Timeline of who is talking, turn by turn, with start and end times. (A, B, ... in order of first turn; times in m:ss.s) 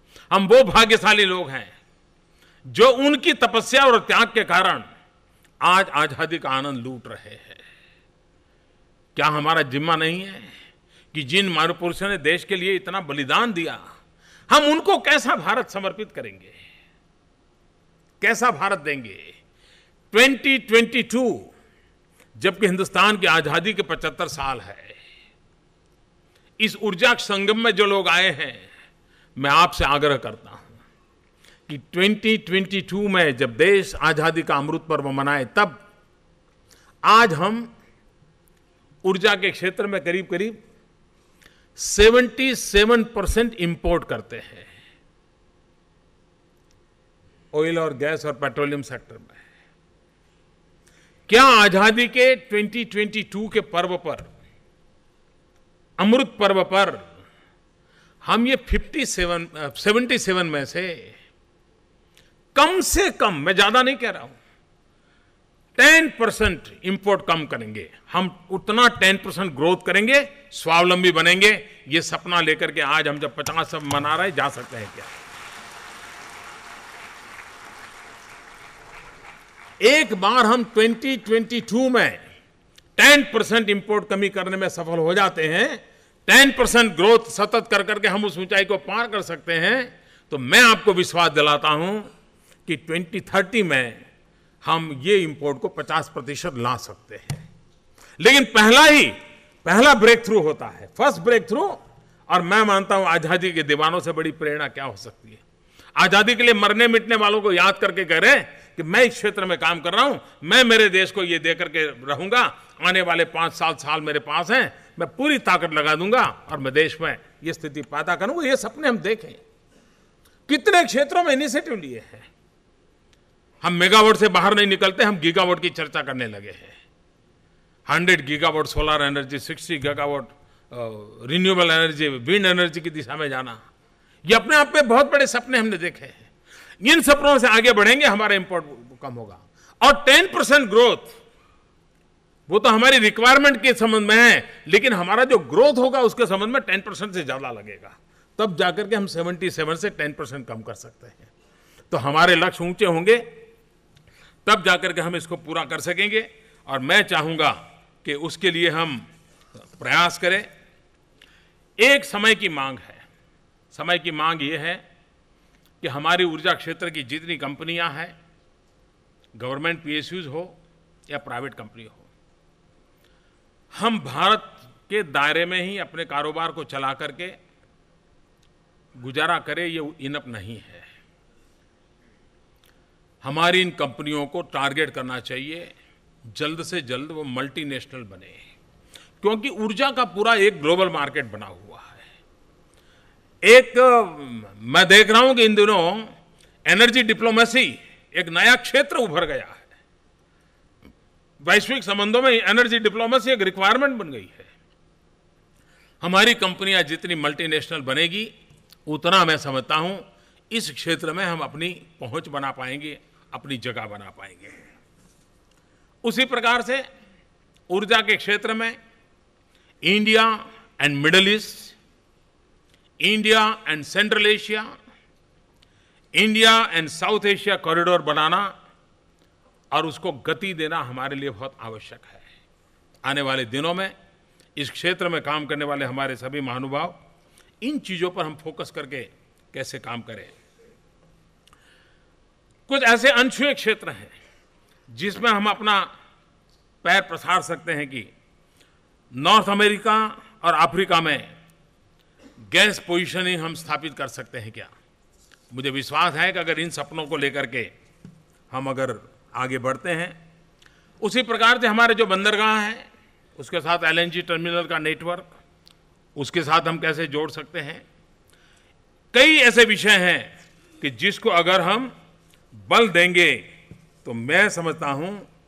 0:00.3-0:01.7 A
0:02.7-0:04.8 A
0:05.6-0:07.6 A
0:09.1-0:10.5 A
0:11.1-0:13.8 A
0:14.5-0:16.6 A
0:18.2-0:19.4 A
0:20.1-0:21.5 A
0:22.4-0:25.0 A
0:26.6-0:28.6 A
0:29.4-0:30.8 A
0:31.7-0:35.8 A
0:37.0-0:37.7 A
0:39.0-0:40.6 A
0:41.8-0:44.7 A
0:47.5-0:49.4 A
0:51.3-0:54.3 A
0:56.0-0:57.0 A
0:58.2-1:01.2 A
1:02.5-1:04.4 A
1:05.8-1:15.1 A
1:19.8-1:22.2 A
1:23.0-1:32.1 A
1:32.6-1:34.0 A
1:34.6-1:37.4 A
1:38.2-1:45.4 A
1:46.0-1:59.4 A
2:00.5-2:02.3 A
2:03.6-2:06.8 A
2:07.9-2:13.6 A
2:14.2-2:16.3 A
2:16.8-2:21.2 A
2:22.5-2:31.3 A
2:31.9-2:33.2 A
2:34.4-2:39.0 A
2:39.7-2:40.5 A
2:41.8-2:43.0 A
2:43.7-2:44.8 A
2:45.8-2:48.1 A
2:49.4-2:50.6 A
2:51.1-2:52.1 A
2:53.7-2:57.4 A
2:59.0-3:00.9 A
3:03.2-3:05.7 A
3:06.3-3:08.4 A
3:09.2-3:12.0 A
3:13.4-3:16.1 A
3:16.6-3:19.7 A
3:21.4-3:24.5 A
3:26.0-3:28.3 A
3:28.8-3:34.6 A
3:36.0-3:36.8 A
3:37.7-3:38.8 A
3:39.8-3:41.8 A
3:43.0-3:44.7 A
3:46.2-3:48.5 A
3:49.7-3:52.2 A
3:53.0-3:53.9 A
3:54.6-3:57.0 A
3:57.6-4:00.3 A
4:02.7-4:04.1 A
4:04.9-4:05.9 A
4:06.8-4:08.1 A
4:09.1-4:11.3 A
4:12.5-4:14.7 A
4:15.5-4:17.7 A
4:18.5-4:20.2 A
4:21.0-4:25.3 A
4:26.2-4:27.8 A
4:29.1-4:31.9 A
4:32.6-4:33.5 A
4:34.0-4:35.3 A